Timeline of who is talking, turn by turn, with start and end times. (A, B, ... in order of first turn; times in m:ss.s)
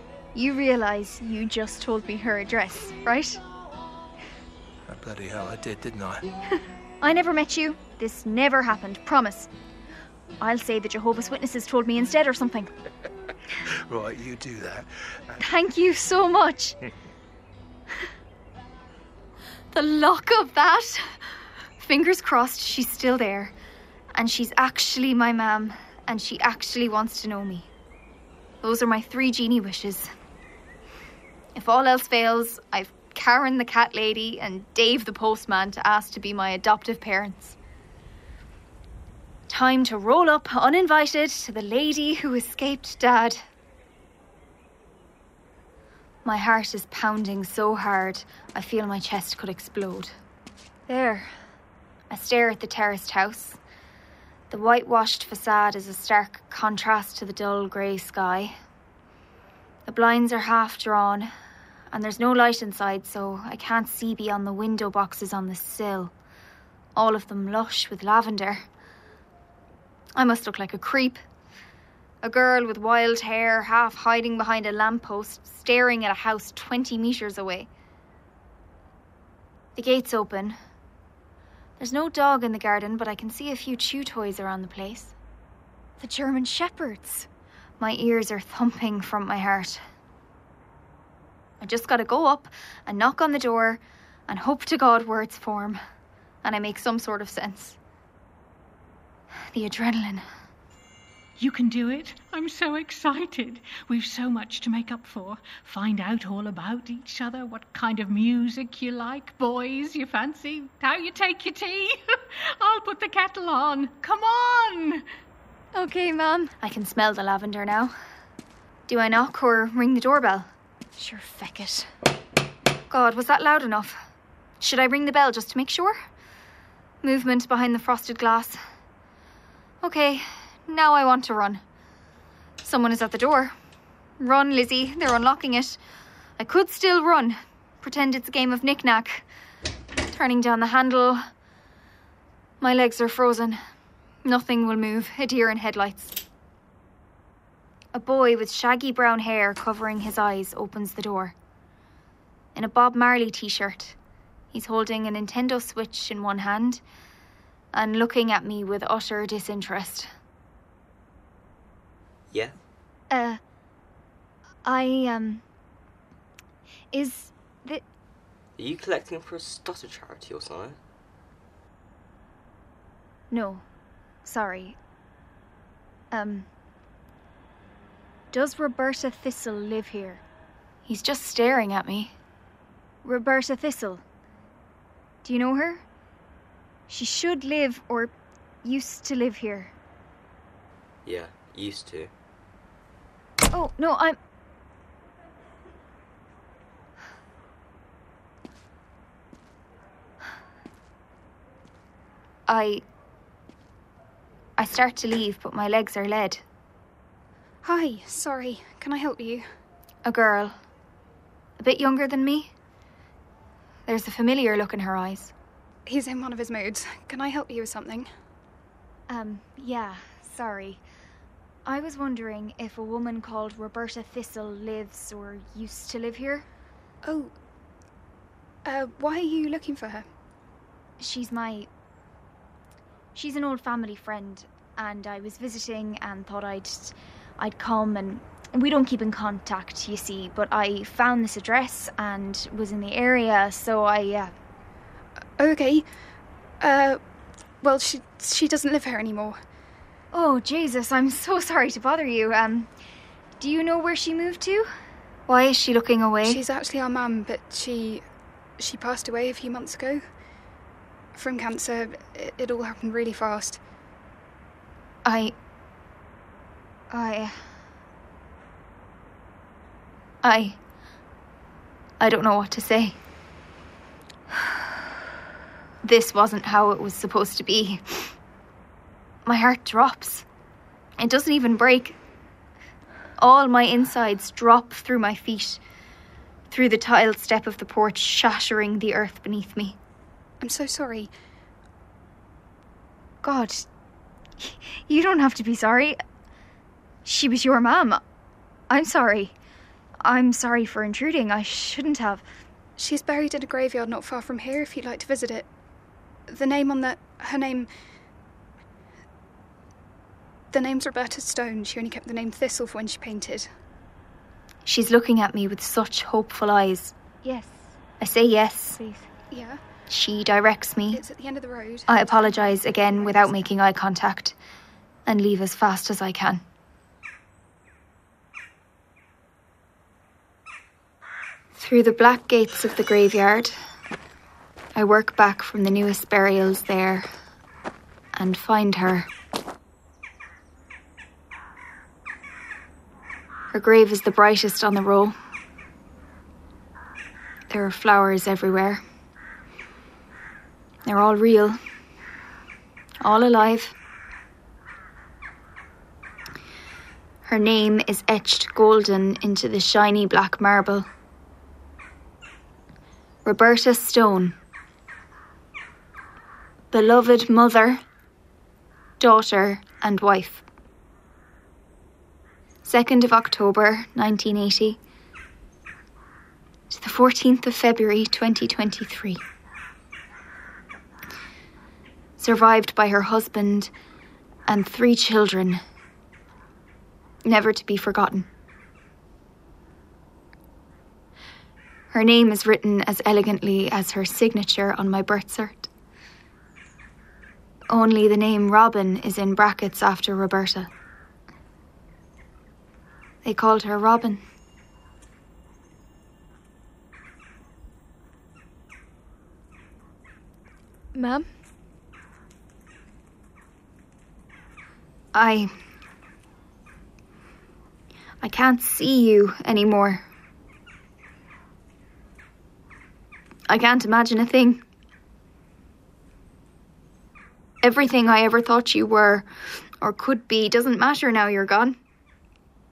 0:00.3-0:03.4 A
0:04.9-0:06.2 B
0:07.0-0:09.5 A
0:10.4-0:12.7 A
0:13.9-0:15.2 B
0:15.4-0:16.8 A
0:19.7-0:21.1 A
0:21.8-0:23.5 A
0:24.1-0:27.7 A
0:28.6-0:30.1 A
0:31.5-0:37.6 A
0:39.5-0:43.4 A
0:46.2-0:50.1 A
0:50.9-0:51.3 A
0:52.1-0:53.6 A
0:54.5-0:58.5 A
0:59.9-1:01.3 A
1:01.9-1:06.1 A
1:07.0-1:08.6 A
1:10.2-1:11.2 A
1:12.2-1:17.7 A
1:19.8-1:20.6 A
1:21.8-1:25.1 A
1:26.0-1:27.3 A
1:27.8-1:29.8 A
1:31.6-1:35.8 A
1:36.4-1:37.8 A
1:39.5-1:40.2 A
1:41.4-1:55.0 C
1:55.7-1:57.9 A
1:58.9-2:01.9 A
2:02.9-2:04.0 A
2:04.6-2:06.0 A
2:07.0-2:08.6 A
2:09.8-2:11.6 A
2:12.6-2:13.5 A
2:14.2-2:15.8 A
2:16.4-2:19.2 A
2:20.1-2:21.2 A
2:22.6-2:23.6 A
2:24.2-2:26.2 A
2:27.9-2:31.3 A
2:32.5-2:34.0 A
2:34.5-2:36.8 A
2:37.7-2:40.1 A
2:42.3-2:42.6 D
2:43.1-2:43.4 A
2:44.6-2:45.4 A
2:46.9-2:47.8 A
2:48.6-2:50.8 D
2:53.3-2:53.6 A
2:54.2-2:54.8 A
2:56.1-2:56.5 A
2:58.3-3:00.2 A
3:00.8-3:02.1 A
3:03.0-3:04.0 A
3:05.2-3:05.8 A
3:06.9-3:08.1 A
3:08.6-3:09.7 A
3:11.0-3:12.1 D
3:13.5-3:14.2 A
3:22.5-3:22.8 A
3:24.6-3:26.4 A
3:27.6-3:29.4 E
3:30.0-3:30.5 A
3:31.6-3:32.5 A
3:33.9-3:35.3 A
3:35.9-3:38.1 E
3:39.1-3:40.8 A
3:41.6-3:46.4 A
3:47.0-3:47.3 E
3:48.6-3:50.0 E
3:51.0-3:51.7 A
3:53.1-4:04.3 A
4:05.4-4:05.8 E
4:06.6-4:07.0 E
4:07.6-4:09.4 E
4:10.1-4:12.7 A
4:13.4-4:14.7 A
4:15.3-4:16.4 A
4:16.2-4:18.0 E
4:18.6-4:20.0 E
4:21.1-4:23.6 E
4:25.0-4:25.3 A
4:26.9-4:27.4 A
4:30.2-4:30.6 A
4:32.0-4:33.0 A
4:35.8-4:38.1 A
4:39.2-4:40.2 A
4:41.0-4:42.0 A
4:43.2-4:45.6 A
4:46.5-4:49.8 A
4:50.4-4:51.1 E
4:53.2-4:53.6 A
4:54.4-4:56.0 A
4:57.0-4:58.0 A
4:58.7-4:59.3 A
5:00.0-5:02.2 A
5:02.8-5:05.5 E
5:06.3-5:07.7 E
5:10.5-5:13.5 E
5:14.6-5:18.8 A
5:18.9-5:19.6 E
5:19.9-5:21.0 A
5:20.9-5:23.5 E
5:21.9-5:24.4 A
5:25.1-5:26.4 A
5:31.6-5:33.6 A
5:34.7-5:37.0 A
5:38.2-5:39.1 A
5:43.5-5:45.1 A
5:47.5-5:48.8 A
5:50.8-5:51.6 A
5:53.0-5:53.8 A
5:57.2-6:00.9 A
6:03.2-6:04.4 A
6:06.7-6:07.8 A
6:09.0-6:10.4 A
6:12.6-6:14.8 A
6:16.7-6:19.2 A
6:22.2-6:23.7 A
6:24.5-6:25.6 A
6:27.2-6:28.3 A
6:31.9-6:35.7 A
6:37.7-6:40.7 A
6:43.2-6:44.2 A
6:50.9-6:51.3 A
6:55.1-6:55.5 A
6:58.2-7:00.0 A
7:03.5-7:04.6 A
7:07.6-7:09.3 A
7:09.8-7:11.8 A